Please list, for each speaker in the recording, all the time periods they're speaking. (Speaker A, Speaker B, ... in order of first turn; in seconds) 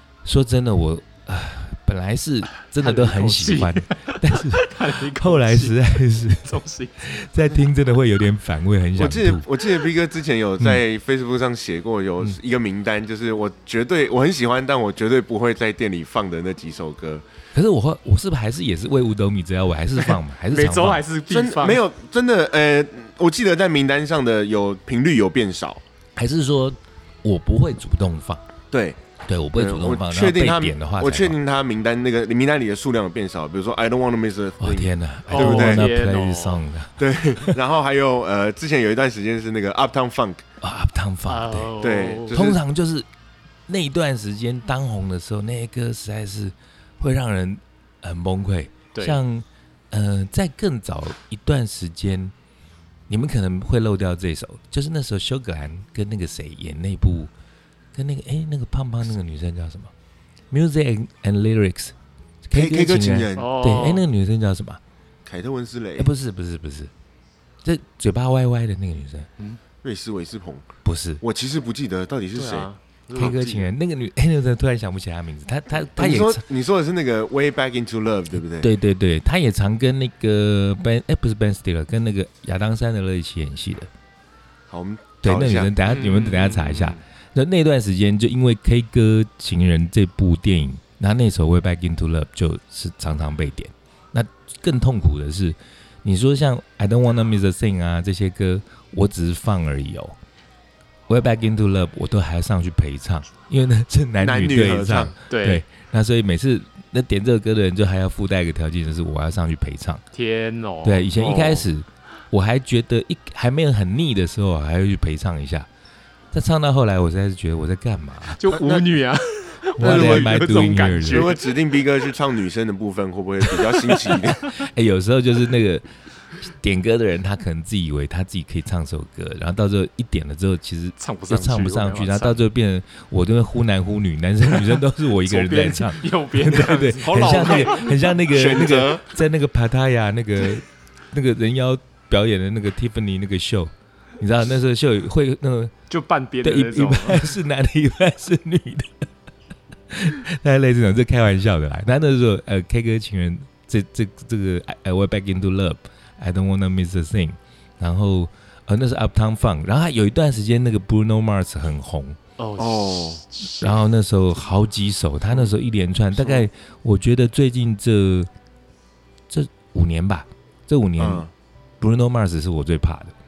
Speaker A: 0.2-9.5, 17.5-21.1, 26.2-28.4, 29.2-31.4, 34.6-37.6, 40.6-41.7, 42.3-43.1, 43.7-52.3, 53.1-57.3, 57.9-59.9, 60.5-64.8, 66.0-66.9, 67.6-69.3, 70.8-71.2, 73.2-76.4, 78.6-83.9, 85.2-100.2, 101.1-110.0, 110.8-115.7, 116.3-118.4, 119.8-121.3, 124.5-125.9, 126.4-145.7, 146.4-149.1, 149.9-162.2, 163.6-168.3, 169.3-171.2, 171.8-173.2
Speaker B: 2.8-7.1, 20.1-21.8, 35.3-36.6, 41.3-42.4, 48.9-49.2, 63.4-64.0, 72.3-73.7, 85.8-87.0, 105.3-105.6, 110.1-111.1, 118.4-121.5, 123.5-124.1, 131.0-132.4, 135.2-137.9, 145.9-147.3, 162.4-163.8
Speaker C: 9.0-17.2, 21.3-25.8, 28.7-29.0, 29.6-35.9, 37.0-40.4, 41.8-42.6, 62.5-63.5, 65.3-66.1, 69.8-70.7, 71.2-72.7, 76.0-78.7, 84.7-85.7, 104.2-105.2, 111.2-111.7, 118.6-118.9, 119.8-120.4, 121.1-124.6, 137.0-139.1, 162.6-163.2, 166.2-166.4, 171.0-171.3